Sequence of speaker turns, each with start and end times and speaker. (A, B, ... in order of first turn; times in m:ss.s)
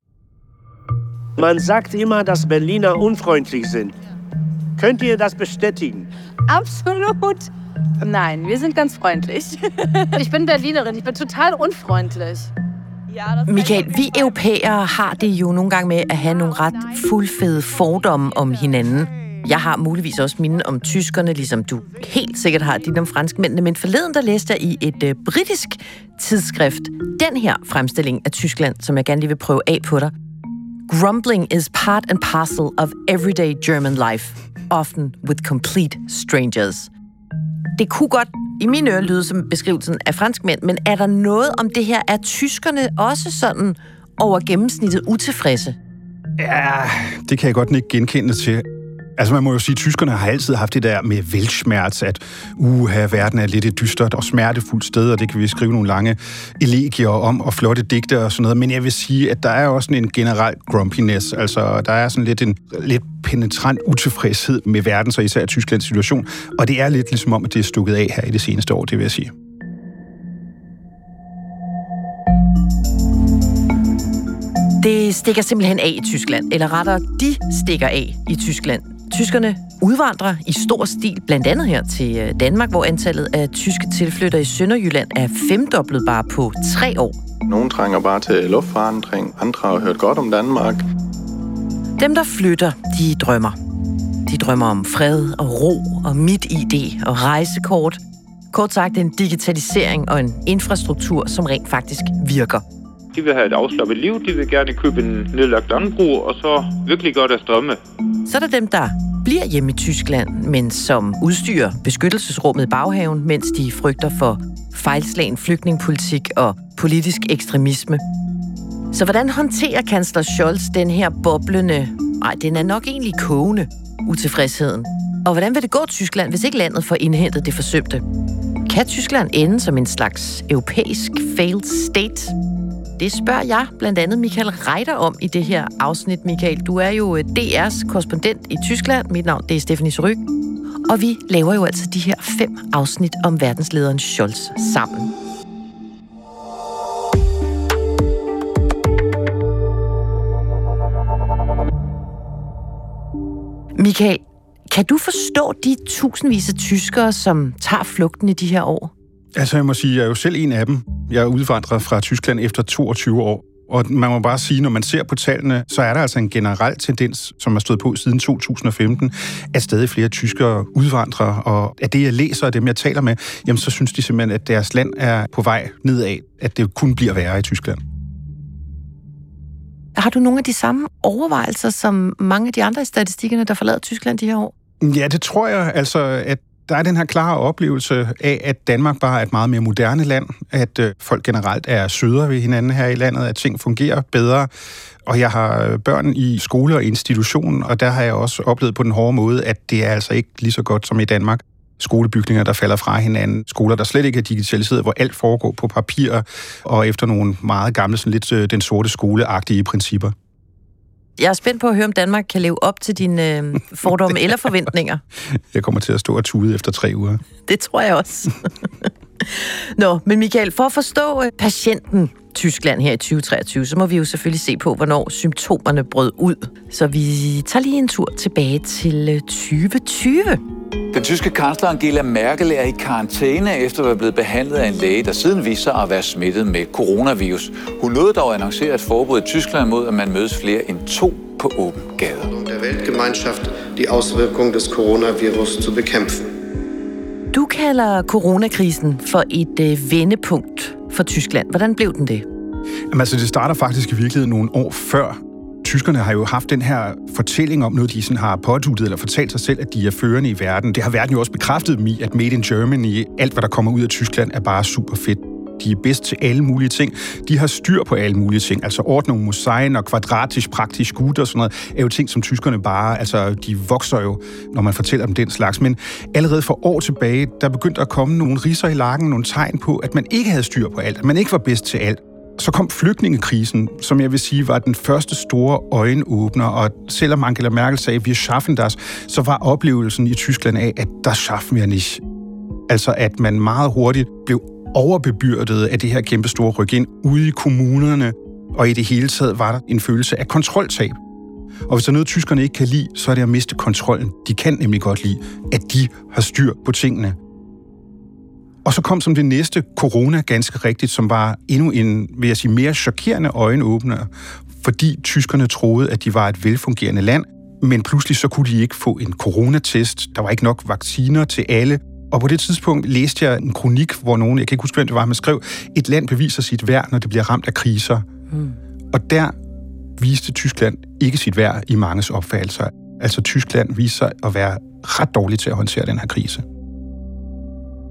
0:01.4-0:04.0 A
0:04.8-0:06.1 A
0:06.5-0:07.5 B
0:08.0-0:12.5 B
0:13.4-0:30.1 C
0:30.9-0:36.9 C
0:37.8-0:45.8 C
0:46.4-0:48.6 D
0:49.2-1:09.3 D
1:14.8-1:27.2 C
1:27.5-1:30.8 E
1:32.0-1:33.6 C
1:34.3-1:38.0 C
1:38.5-1:42.6 C
1:43.1-1:47.8 F
1:48.3-1:58.0 C
1:58.9-2:08.0 C
2:08.7-2:12.3 C
2:13.0-2:20.2 C
2:20.9-2:25.1 C
2:33.7-2:38.9 C
2:39.4-2:57.8 D
3:00.0-3:04.5 C
3:04.8-3:14.5 D
3:15.0-3:30.1 D
3:31.2-3:35.0 C
3:35.5-3:37.2 D
3:37.5-3:50.4 C
3:50.9-4:02.3 G
4:02.3-4:06.3 H
4:07.3-4:12.2 C
4:12.9-4:52.0 D
4:52.7-5:01.0 D
5:01.7-5:07.2 D
5:08.6-5:14.1 D
5:14.6-5:28.0 D
5:28.9-5:29.3 D
5:30.0-5:36.4 D